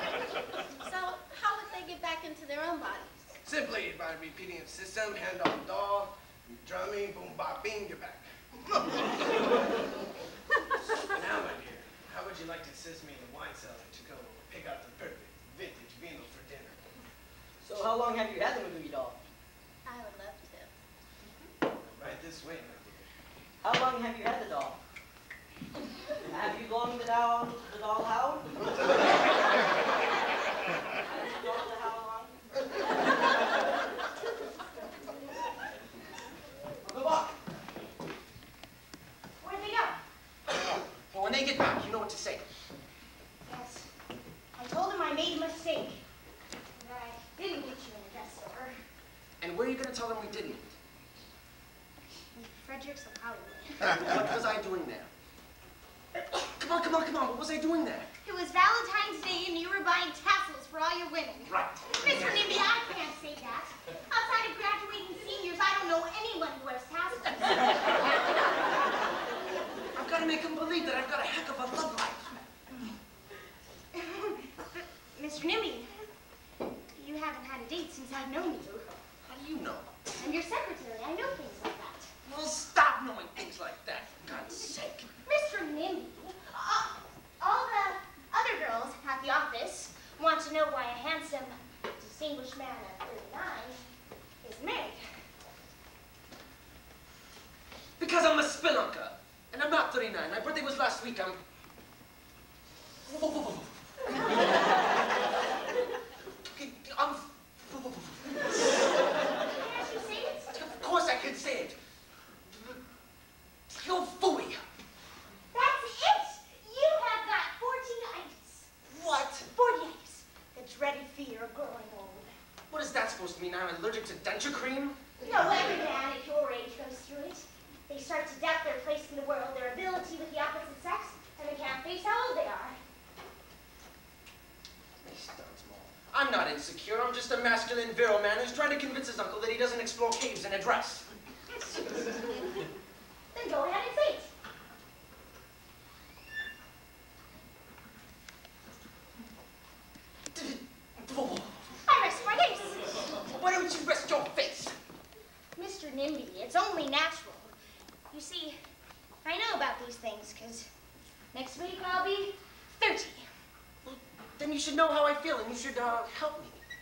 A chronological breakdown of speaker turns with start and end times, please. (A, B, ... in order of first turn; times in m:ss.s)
0:00.8-0:03.3 A
0:03.4-0:08.3 B
0:08.8-0:09.4 B
0:11.1-0:16.9 B
0:17.6-0:19.2 C
0:19.8-0:20.7 A
0:21.9-0:23.1 B
0:23.6-0:24.8 C
0:26.2-0:28.5 C
0:31.1-0:32.4 C
0:36.8-0:37.4 C
0:39.4-0:40.0 D
0:40.5-0:42.4 E
0:43.4-0:43.9 D
0:44.6-0:46.0 D
0:46.8-0:48.8 D
0:49.4-0:50.7 E
0:52.3-0:54.0 D
0:53.9-0:55.1 E
0:56.4-0:58.1 E
0:58.2-1:07.7 D
1:01.5-1:02.5 E
1:09.9-1:12.4 E
1:13.9-1:15.9 D
1:16.9-1:19.0 D
1:19.2-1:19.9 E
1:20.1-1:22.1 D
1:22.2-1:25.1 E
1:25.2-1:33.9 D
1:34.4-1:35.0 D
1:38.0-1:41.4 E
1:43.1-1:44.4 E
1:46.5-1:48.4 E
1:49.5-1:50.5 D
1:50.5-1:51.8 E
1:52.5-1:52.8 E
1:53.7-1:54.6 E
1:55.5-1:58.7 D
1:58.9-1:59.5 E
1:59.4-2:02.4 D
2:02.7-2:05.0 E
2:05.2-2:12.8 D
2:15.0-2:21.0 E
2:23.3-2:24.3 D
2:30.3-2:31.6 E
2:31.8-2:32.8 D
2:33.2-2:34.7 E
2:35.6-2:37.5 D
2:38.1-2:38.6 D
2:39.2-2:40.7 D
2:41.3-2:43.3 D
2:43.8-2:46.6 E